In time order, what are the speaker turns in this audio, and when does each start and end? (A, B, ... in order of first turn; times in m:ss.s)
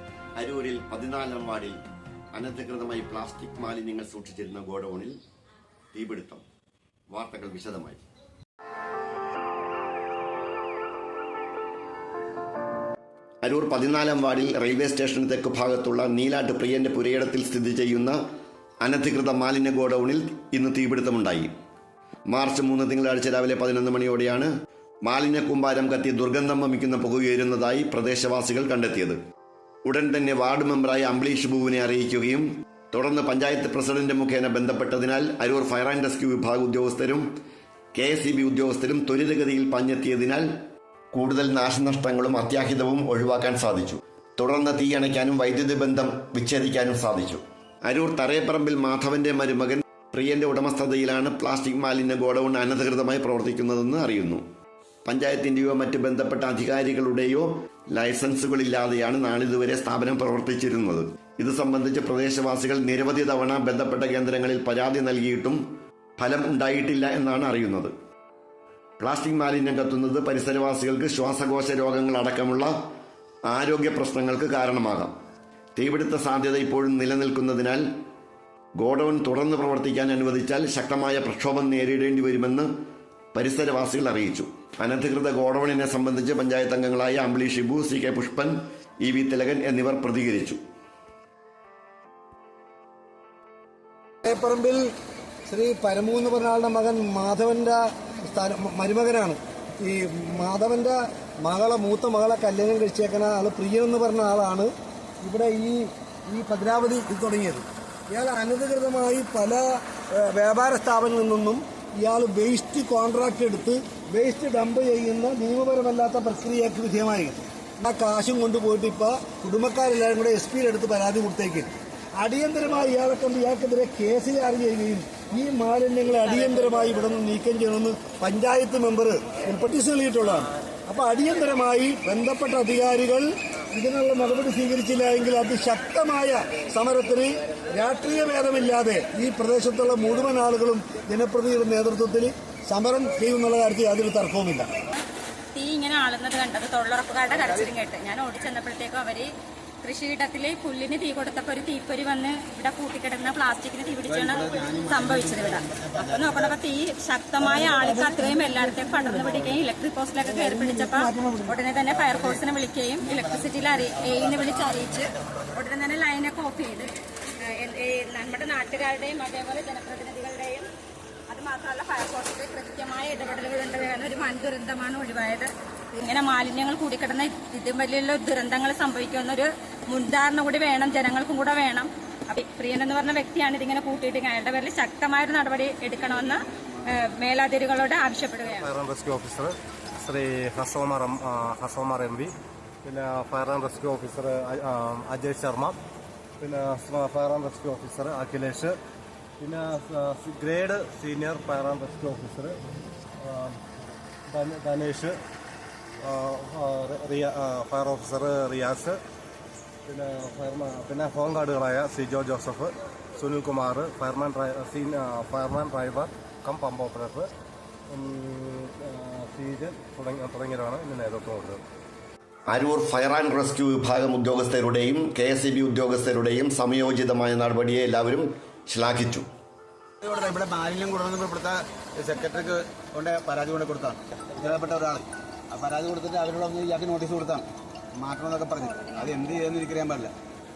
0:00.4-0:01.8 A
0:02.3-0:05.2 A
0:05.9-0:06.4 A
0:07.1-0:08.0 A
0:13.4-0:18.2 A
0:18.8-0:21.5 A
0:22.3-0:24.5 A
0:25.0-0:29.2 A
0:29.8-0:37.2 A
0:37.9-0:40.4 A
0:41.1-0:54.4 A
0:55.0-1:05.6 A
1:06.2-1:07.9 A
1:09.0-1:12.7 A
1:13.5-1:15.1 A
1:15.8-1:17.8 A
1:18.8-1:22.7 A
1:23.3-1:30.6 A
1:34.2-1:34.9 B
1:35.5-1:44.7 B
1:45.2-2:24.7 B
2:25.5-2:29.3 C
2:29.8-2:46.9 C
2:34.1-2:36.5 D
2:38.0-2:39.0 B
2:40.4-2:41.5 B
2:47.5-2:50.7 C
2:51.3-3:08.7 C
3:08.5-3:12.3 E
3:12.8-3:15.8 E
3:16.4-3:18.7 E
3:19.4-3:22.6 E
3:23.2-3:23.6 E
3:24.3-3:25.1 E
3:26.0-3:29.0 E
3:29.8-3:37.3 E
3:37.9-3:41.6 E
3:42.5-3:49.3 A
3:50.0-3:57.5 D
3:58.0-4:00.1 D
3:58.6-3:59.4 C